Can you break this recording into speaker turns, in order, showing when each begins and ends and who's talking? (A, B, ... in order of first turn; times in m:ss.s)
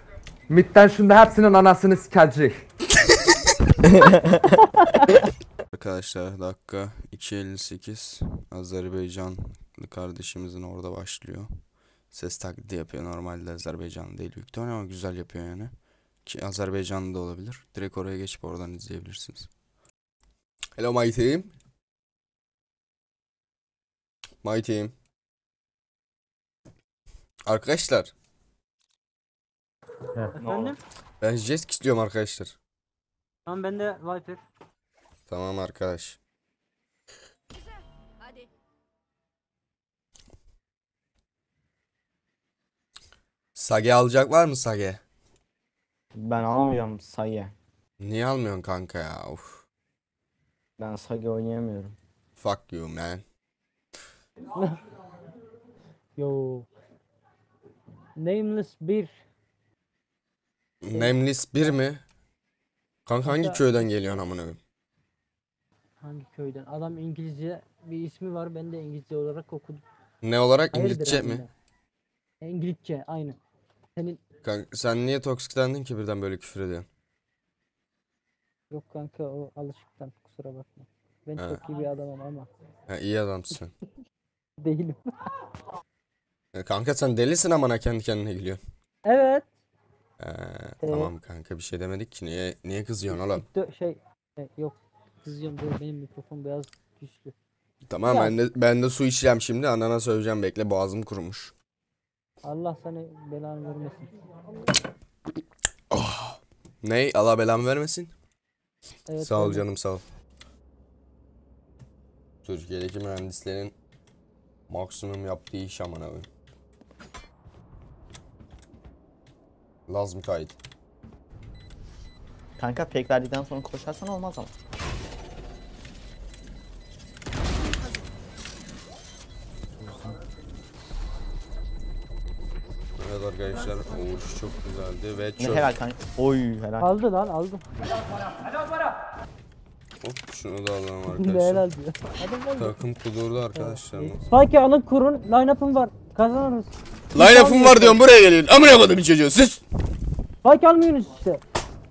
0:00.5-0:02.6 A
0:05.7-0:11.5 B
0:12.1-0:15.7 B
0:16.2-0:19.5 B
0:20.8-0:21.5 B
0:24.4-0:24.9 B
0:27.5-0:28.1 B
0:30.2-0:30.7 C
0:30.3-0:30.8 D
0:31.2-0:32.6 B
0:33.5-0:34.4 D
0:35.3-0:36.2 B
0:43.6-0:45.0 B
0:46.1-0:47.5 C
0:48.0-0:49.6 B
0:50.8-0:52.0 C
0:52.4-0:53.2 B
0:54.6-0:54.8 D
0:56.2-0:56.7 D
0:58.2-0:59.1 D
1:00.8-1:02.0 B
1:03.1-1:04.6 B
1:03.2-1:03.6 D
1:06.0-1:09.8 D
1:10.2-1:11.4 B
1:10.7-1:11.5 D
1:12.4-1:13.4 D
1:14.4-1:16.9 B
1:18.7-1:22.5 D
1:22.9-1:23.7 B
1:24.6-1:25.2 D
1:26.5-1:28.6 B
1:29.0-1:29.5 D
1:30.2-1:33.5 B
1:30.8-1:31.1 D
1:33.1-1:37.3 D
1:37.9-1:41.5 B
1:38.1-1:38.4 D
1:42.4-1:44.1 D
1:45.9-1:48.1 B
1:49.1-1:49.6 D
1:49.2-1:50.1 B
1:52.4-1:53.7 B
1:54.7-1:56.3 B
1:59.9-2:00.6 B
2:02.6-2:04.5 C
2:13.0-2:15.7 B
2:15.4-2:16.9 C
2:16.8-2:17.6 D
2:20.0-2:21.6 B
2:21.1-2:22.7 D
2:22.6-2:24.3 B
2:23.6-2:28.0 D
2:27.1-2:29.6 B
2:30.4-2:31.4 D